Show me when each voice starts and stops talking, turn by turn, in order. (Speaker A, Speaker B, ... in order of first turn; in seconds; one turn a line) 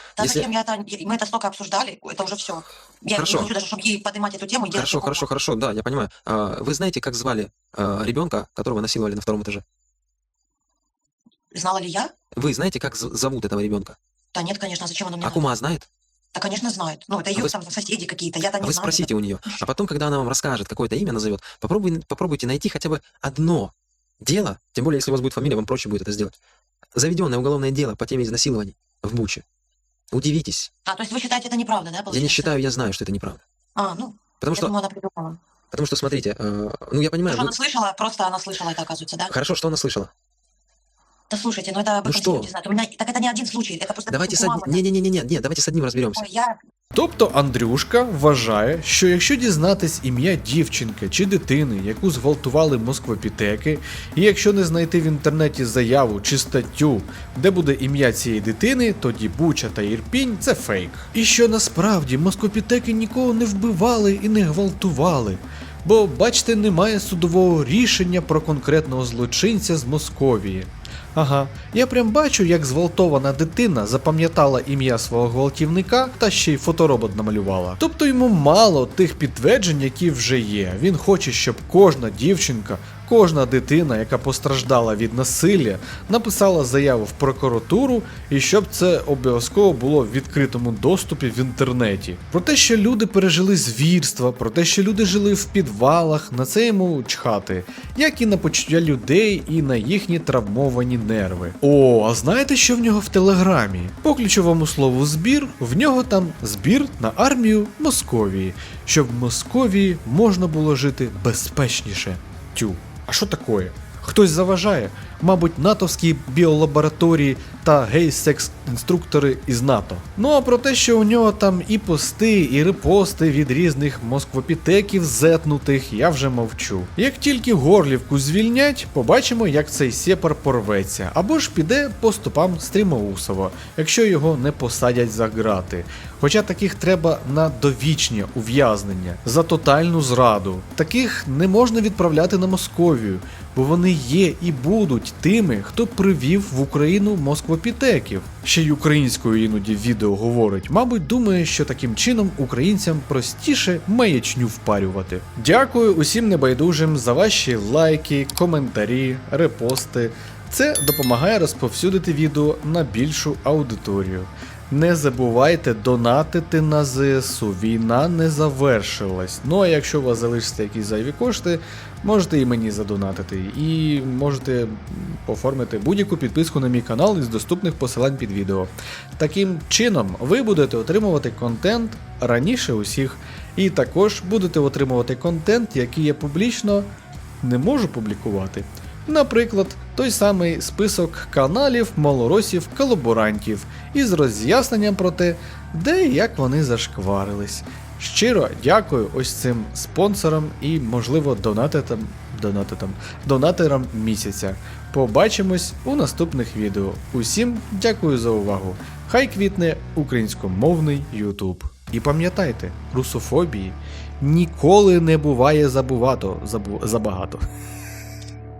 Speaker A: 0.1-5.3
Speaker B: 0.2-0.5
Speaker B: 3.1-3.5
Speaker B: 4.7-9.6
Speaker A: 11.5-12.1
Speaker B: 12.3-14.0
Speaker A: 14.3-15.4
Speaker B: 15.2-15.9
Speaker A: 16.3-19.1
Speaker B: 18.6-26.3
Speaker B: 26.9-29.4
Speaker B: 30.1-30.7
Speaker A: 30.8-32.5
Speaker B: 32.1-33.4
Speaker A: 33.8-35.4
Speaker B: 34.4-34.7
Speaker B: 35.7-37.5
Speaker A: 37.3-39.3
Speaker B: 39.3-40.1
Speaker A: 41.3-44.8
Speaker B: 42.0-42.5
Speaker B: 44.1-46.2
Speaker A: 46.1-46.6
Speaker C: 46.9-186.9
Speaker C: 187.4-217.5